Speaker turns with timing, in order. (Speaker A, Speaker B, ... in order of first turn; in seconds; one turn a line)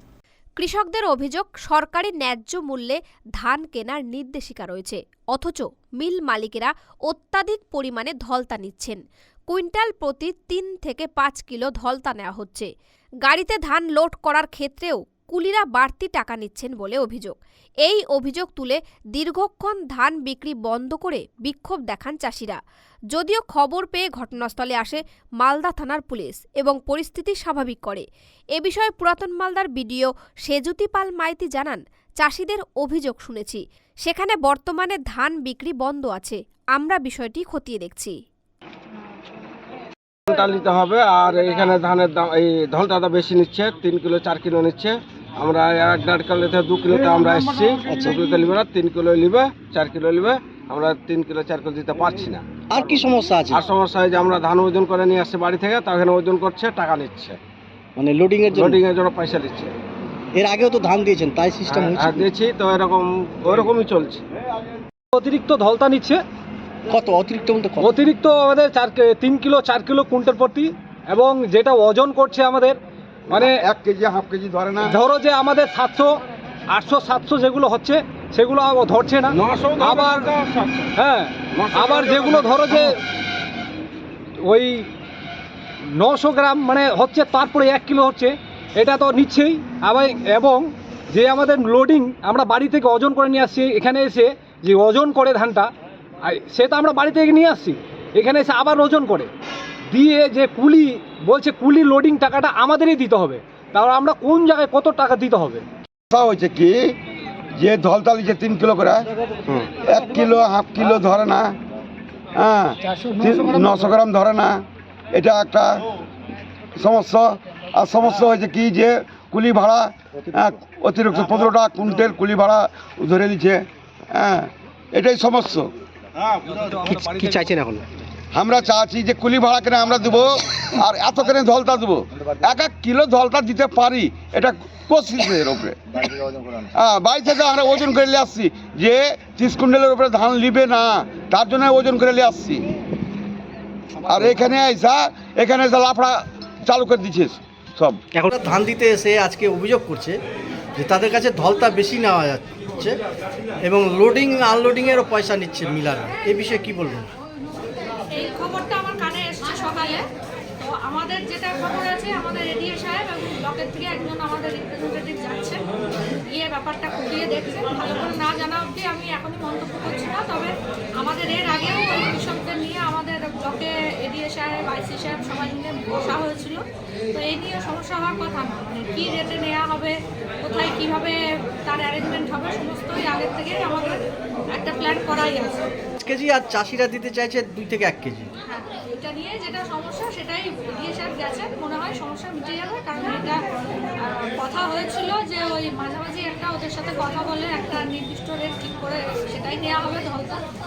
Speaker A: 0.6-12.7
Speaker A: 13.2-22.6
Speaker A: 23.1-28.1
Speaker A: 28.6-38.2
Speaker B: 40.3-57.4
Speaker C: 47.9-48.2
Speaker C: 52.7-53.6
Speaker C: 58.0-58.8
Speaker B: 58.5-59.7
Speaker C: 60.3-62.3
Speaker B: 61.7-64.2
Speaker D: 65.1-66.2
Speaker C: 66.9-68.0
Speaker D: 67.8-72.8
Speaker E: 73.3-74.9
Speaker D: 74.9-76.2
Speaker D: 76.7-80.3
Speaker B: 79.3-80.9
Speaker D: 81.0-82.9
Speaker B: 81.5-82.9
Speaker D: 84.4-84.9
Speaker D: 85.9-99.3
Speaker D: 99.9-105.6
Speaker E: 106.1-106.9
Speaker E: 107.6-109.1
Speaker E: 109.8-111.5
Speaker E: 112.3-114.6
Speaker E: 115.1-115.8
Speaker E: 116.8-125.7
Speaker D: 126.5-127.3
Speaker C: 126.8-127.8
Speaker E: 128.3-135.8
Speaker E: 136.7-142.7
Speaker E: 144.1-148.0
Speaker C: 148.1-150.2
Speaker C: 150.8-153.0
Speaker C: 153.6-157.1
Speaker F: 158.0-160.0
Speaker F: 160.6-165.6
Speaker F: 166.3-184.0
Speaker F: 184.5-185.7
Speaker C: 186.0-188.3
Speaker F: 188.4-193.4
Speaker F: 194.0-200.4